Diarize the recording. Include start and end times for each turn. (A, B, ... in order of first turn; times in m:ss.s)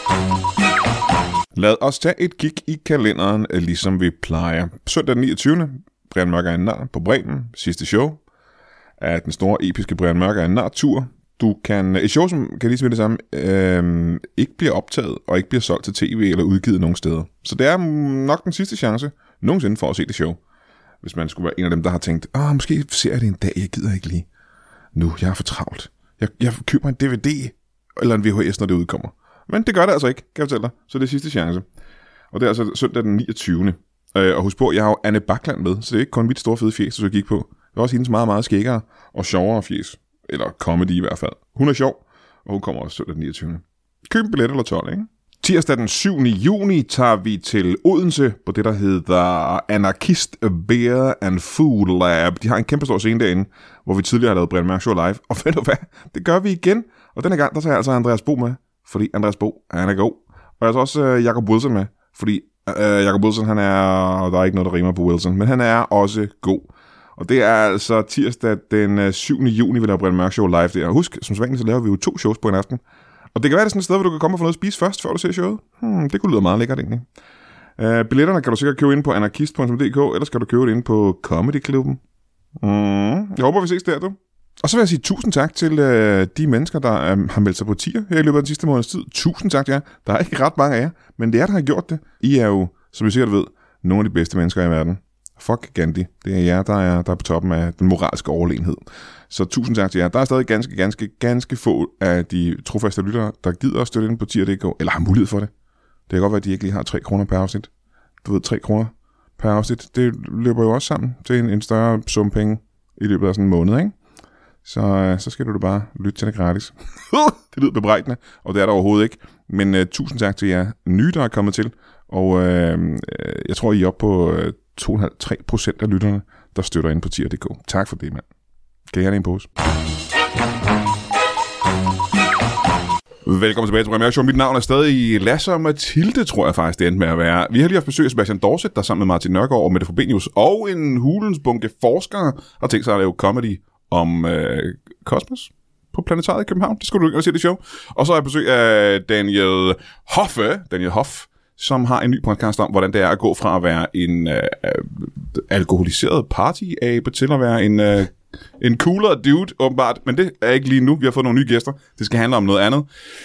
0:01.5-0:08.2 A
0:09.0-0:20.4 A
0:21.0-0:24.3 A
0:24.9-0:31.6 A
0:32.3-1:12.8 A
1:13.3-1:17.1 A
1:17.8-1:22.0 A
1:22.6-1:45.5 A
1:46.1-1:47.7 A
1:48.2-1:54.0 A
1:54.6-2:08.2 A
2:08.9-2:09.5 A
2:13.2-2:42.9 A